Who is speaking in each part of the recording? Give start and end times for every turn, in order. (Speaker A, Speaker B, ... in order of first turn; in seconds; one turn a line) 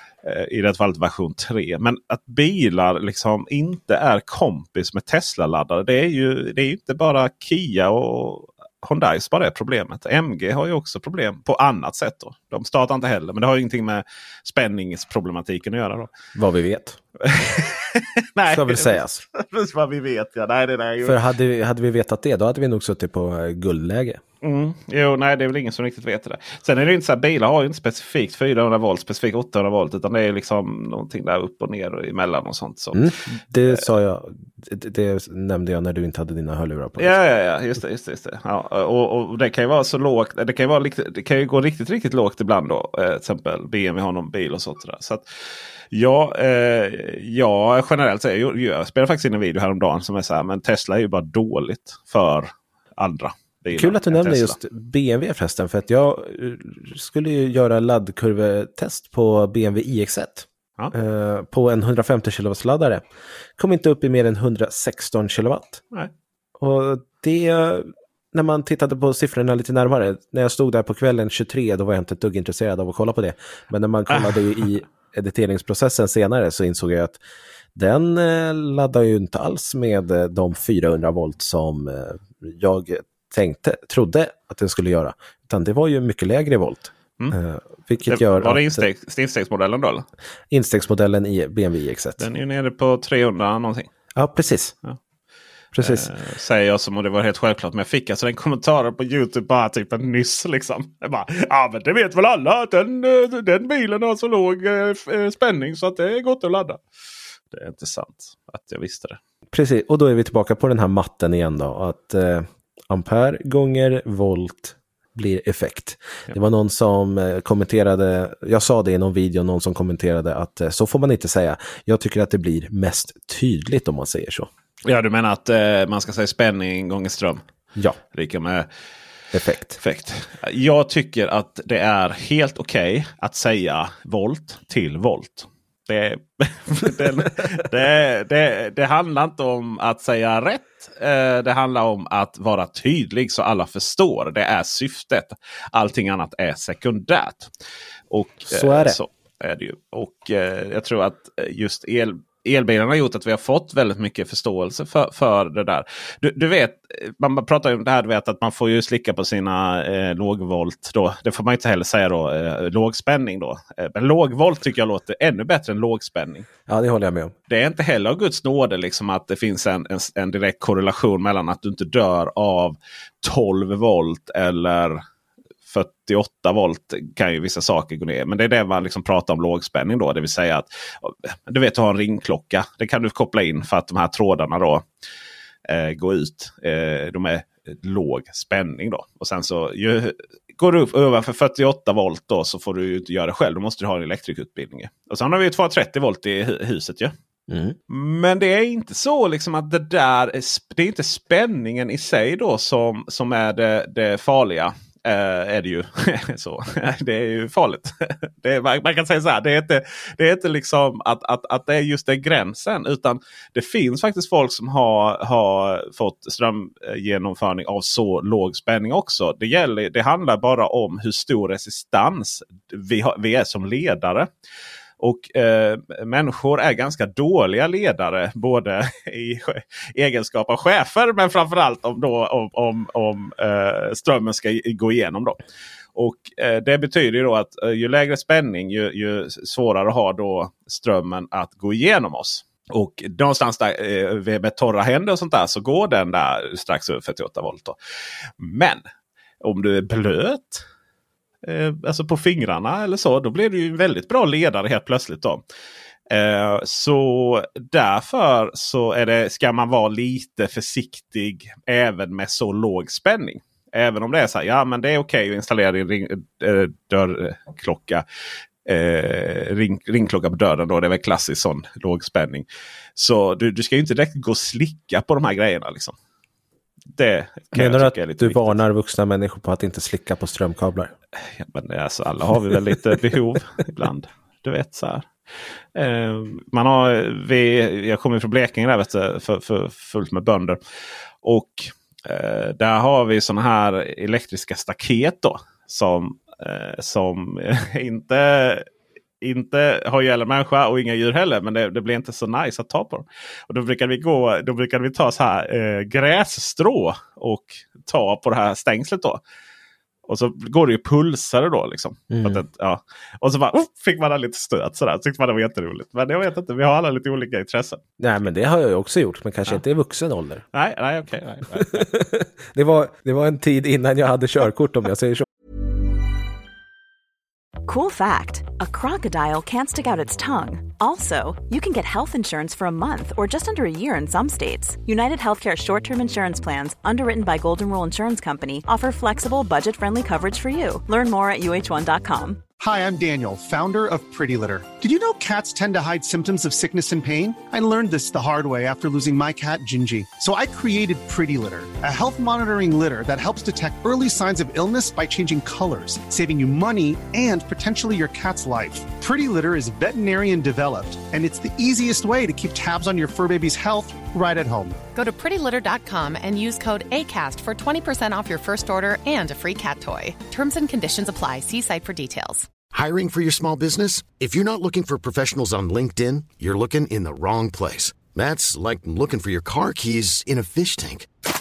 Speaker A: 0.2-16.1
Speaker B: 16.4-17.0
Speaker A: 17.2-21.2
Speaker B: 18.5-19.2
Speaker B: 21.0-24.2
Speaker A: 24.4-33.1
Speaker B: 32.9-37.2
Speaker A: 37.0-45.2
Speaker A: 45.9-54.5
Speaker B: 53.7-63.0
Speaker B: 63.6-65.8
Speaker B: 66.6-77.2
Speaker A: 74.1-74.5
Speaker B: 77.7-88.8
Speaker A: 88.1-90.0
Speaker B: 90.5-92.2
Speaker A: 92.2-93.9
Speaker B: 94.1-94.7
Speaker B: 95.7-96.1
Speaker A: 95.8-106.8
Speaker A: 107.5-109.2
Speaker B: 109.5-124.5
Speaker A: 124.8-127.4
Speaker A: 128.1-128.7
Speaker B: 129.3-129.8
Speaker A: 129.8-147.5
Speaker A: 148.1-166.5
Speaker B: 148.5-149.0
Speaker B: 166.7-167.3
Speaker A: 167.5-175.0
Speaker A: 175.7-184.8
Speaker A: 185.7-197.1
Speaker B: 197.5-197.8
Speaker A: 197.9-224.3
Speaker A: 225.0-235.4
Speaker A: 235.9-247.8
Speaker A: 248.4-248.8
Speaker A: 249.4-250.6
Speaker A: 251.4-255.4
Speaker A: 256.1-268.0
Speaker A: 268.6-275.9
Speaker A: 276.9-278.6
Speaker B: 277.5-280.9
Speaker A: 281.4-285.1
Speaker A: 285.7-290.6
Speaker A: 291.2-298.6
Speaker A: 299.2-309.2
Speaker A: 310.1-317.8
Speaker B: 312.1-312.4
Speaker B: 318.0-320.4
Speaker A: 320.5-321.9
Speaker B: 321.5-325.2
Speaker C: 327.7-342.4
Speaker D: 342.6-364.8
Speaker E: 364.9-372.5
Speaker F: 372.7-381.1